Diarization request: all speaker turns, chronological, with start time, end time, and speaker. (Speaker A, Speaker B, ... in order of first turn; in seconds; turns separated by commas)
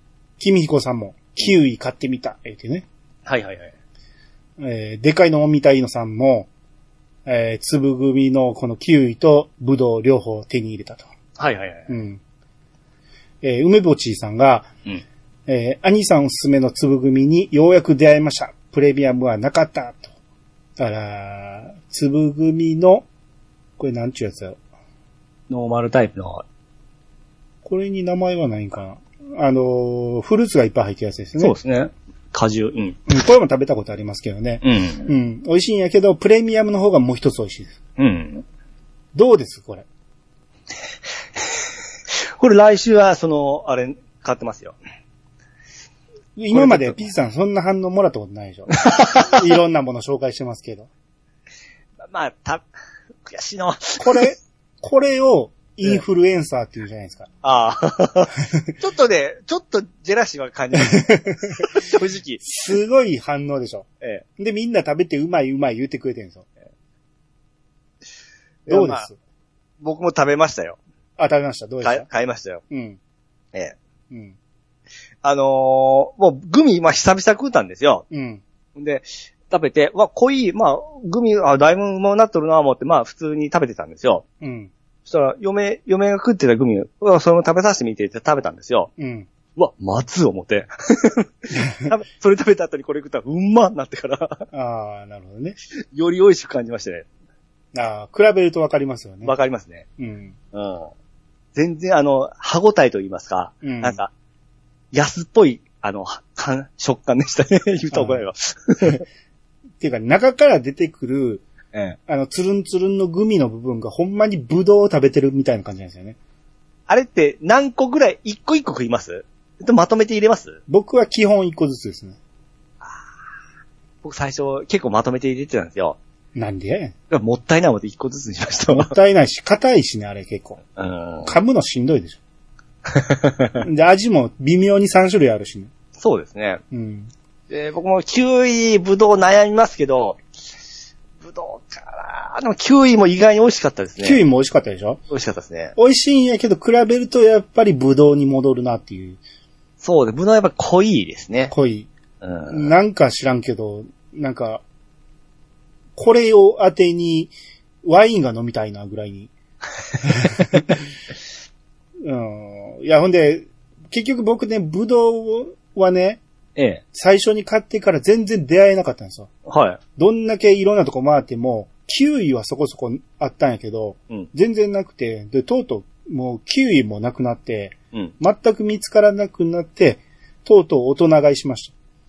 Speaker A: 0.4-2.9, Speaker B: 3.3-3.7, Speaker A: 4.6-6.5, Speaker A: 7.3-11.1, Speaker B: 11.4-11.9, Speaker A: 11.9-12.2, Speaker A: 13.4-14.7, Speaker A: 15.5-20.1, Speaker A: 20.8-23.1, Speaker A: 23.8-24.6, Speaker B: 25.5-26.4, Speaker A: 27.6-31.6, Speaker B: 31.4-33.0, Speaker A: 33.1-37.8, Speaker B: 34.6-35.1, Speaker B: 38.0-38.4, Speaker A: 39.1-39.9, Speaker B: 42.4-44.8, Speaker A: 46.4-50.9, Speaker B: 46.5-47.0, Speaker B: 48.8-49.4, Speaker B: 52.1-52.6, Speaker B: 53.2-54.3, Speaker A: 54.0-57.3, Speaker B: 57.4-62.4, Speaker A: 60.8-61.9, Speaker A: 62.4-66.5, Speaker B: 68.7-69.1, Speaker A: 68.7-69.2, Speaker B: 69.8-70.8, Speaker A: 71.2-72.1, Speaker B: 71.8-72.6, Speaker A: 72.7-73.0, Speaker A: 74.1-74.4, Speaker B: 75.2-78.1, Speaker A: 78.1-78.4, Speaker B: 78.8-84.2, Speaker A: 84.4-84.7, Speaker B: 85.0-88.9, Speaker A: 89.0-89.3, Speaker B: 89.6-94.5, Speaker A: 91.5-91.9, Speaker A: 94.5-95.6, Speaker B: 95.9-97.1, Speaker A: 97.7-99.3, Speaker B: 99.2-99.9, Speaker A: 100.0-100.3, Speaker B: 100.5-100.9, Speaker B: 101.5-104.1, Speaker A: 103.6-104.0, Speaker B: 104.9-109.0, Speaker A: 107.9-108.2, Speaker A: 109.8-111.4, Speaker A: 112.1-116.2, Speaker B: 116.9-120.6, Speaker A: 120.7-122.2, Speaker B: 124.0-126.0, Speaker A: 126.3-127.0, Speaker B: 127.1-128.9, Speaker A: 128.7-130.6, Speaker B: 130.8-131.4, Speaker A: 131.2-132.2, Speaker B: 132.9-133.6, Speaker A: 133.6-135.7, Speaker B: 136.0-136.6, Speaker A: 136.7-137.1, Speaker B: 137.5-140.2, Speaker B: 141.2-144.2, Speaker A: 144.0-145.0, Speaker B: 145.1-145.8, Speaker A: 145.8-149.2, Speaker B: 149.8-151.5, Speaker A: 151.5-151.9, Speaker B: 152.2-152.7, Speaker A: 152.5-154.6, Speaker A: 156.0-159.3, Speaker A: 160.0-160.8, Speaker A: 162.0-166.2, Speaker B: 166.6-166.8, Speaker A: 166.9-169.3, Speaker B: 169.5-169.8, Speaker A: 170.0-181.7